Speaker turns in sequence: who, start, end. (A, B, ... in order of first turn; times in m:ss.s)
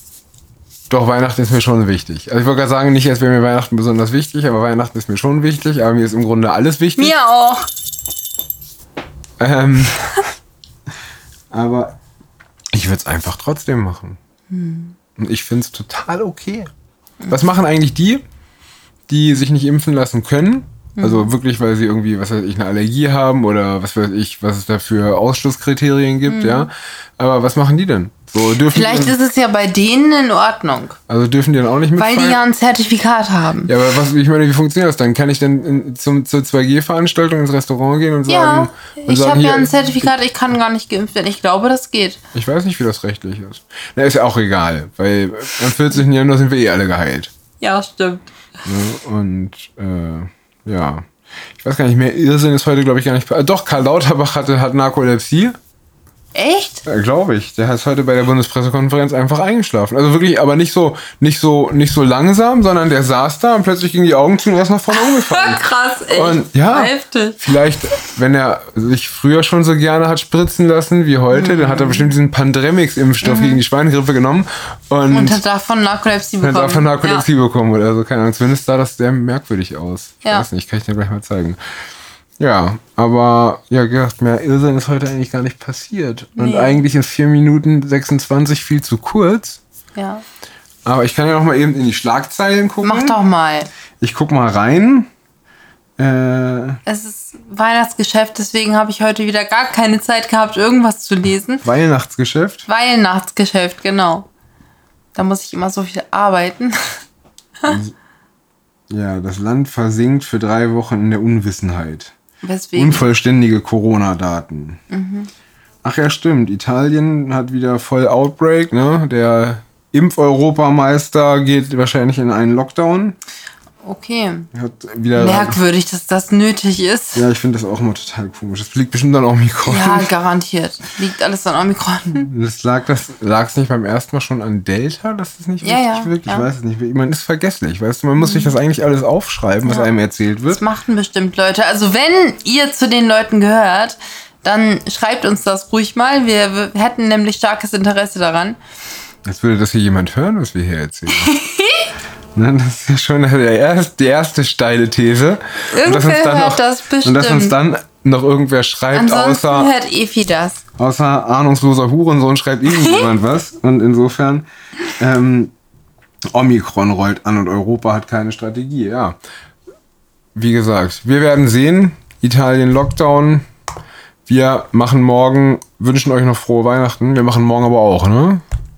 0:00.9-0:07.1 A
0:07.0-0:07.7 B
0:09.4-0:10.2 A
0:11.5-0:12.0 A
0:12.7-0:14.2 A
0:14.5-0:14.9 B
0:15.2-0:16.7 A
0:17.3-0:18.2 A
0:19.1-0:29.2 A
0:21.0-0:21.3 B
0:26.3-0:26.7 B
0:28.7-0:31.0 B
0:31.1-0:32.4 A
0:32.0-0:33.7 B
0:33.7-0:40.1 A
0:38.3-0:42.2 B
0:42.3-0:47.3 A
0:47.6-0:48.3 B
0:48.6-0:51.0 A
0:51.6-0:55.6 A
0:56.3-0:56.8 B
0:56.8-1:15.4 A
1:04.9-1:07.4 B
1:11.3-1:12.1 B
1:13.2-1:13.6 B
1:15.1-1:17.3 B
1:16.4-1:21.6 A
1:22.4-1:29.6 A
1:26.4-1:26.8 B
1:30.0-1:30.2 B
1:30.8-1:33.2 A
1:32.8-1:33.7 B
1:34.0-1:35.1 A
1:36.0-1:36.8 A
1:36.8-1:41.6 B
1:41.6-1:42.6 A
1:42.6-1:44.3 B
1:45.1-1:47.0 B
1:47.7-1:47.9 A
1:48.9-1:52.1 A
1:52.4-1:53.0 B
1:52.7-1:54.8 A
1:54.9-1:55.3 B
1:55.8-2:03.2 A
2:03.8-2:04.5 B
2:04.5-2:05.6 A
2:05.2-2:07.2 B
2:07.1-2:10.1 A
2:09.6-2:12.3 B
2:12.2-2:20.6 A
2:15.6-2:16.5 B
2:18.2-2:18.6 B
2:20.5-2:28.6 B
2:29.2-2:31.3 A
2:31.1-2:31.9 B
2:32.3-2:39.7 A
2:35.7-2:37.6 B
2:38.9-2:40.6 B
2:40.8-2:45.5 A
2:42.7-2:43.1 B
2:46.3-2:49.2 A
2:50.3-2:53.4 A
2:54.3-2:58.4 A